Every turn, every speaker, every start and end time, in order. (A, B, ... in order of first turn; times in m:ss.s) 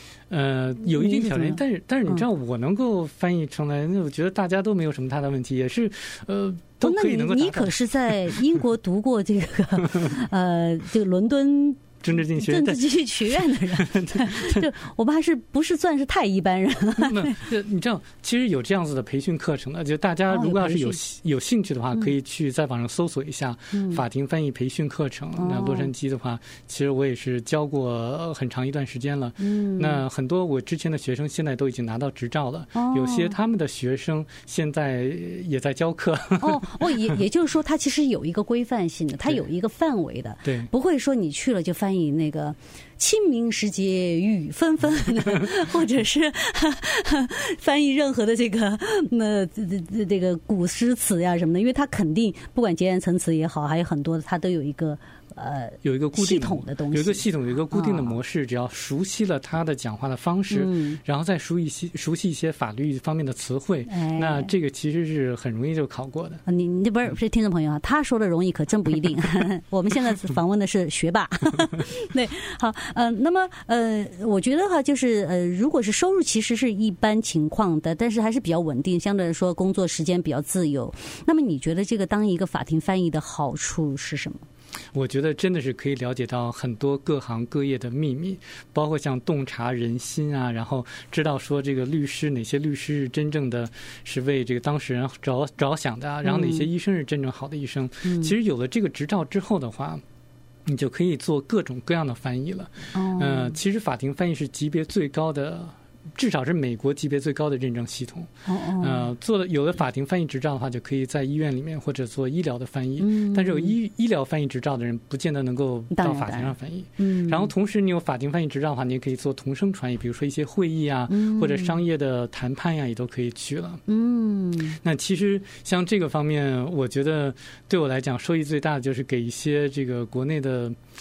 0:00.3-0:07.7 A
0:00.8-0:01.6 B
0:06.8-0:17.4 B
0:12.0-0:13.0 A
0:13.7-0:14.6 A
0:17.0-0:37.2 A
0:20.3-0:21.0 B
0:23.7-0:24.0 B
0:25.4-0:25.9 B
0:29.4-0:30.0 B
0:32.7-0:33.4 B
0:36.4-0:58.2 B
0:40.4-0:40.7 A
0:55.8-1:06.4 A
1:00.5-1:01.0 B
1:03.9-1:04.5 B
1:06.4-1:24.4 B
1:24.9-1:40.0 A
1:36.2-1:36.7 B
1:38.0-1:38.3 B
1:40.6-2:03.8 A
1:42.9-1:43.6 B
1:48.5-1:49.1 B
1:53.0-1:53.7 B
1:55.9-1:57.5 B
2:01.1-2:01.8 B
2:03.9-2:04.8 B
2:04.8-2:10.8 A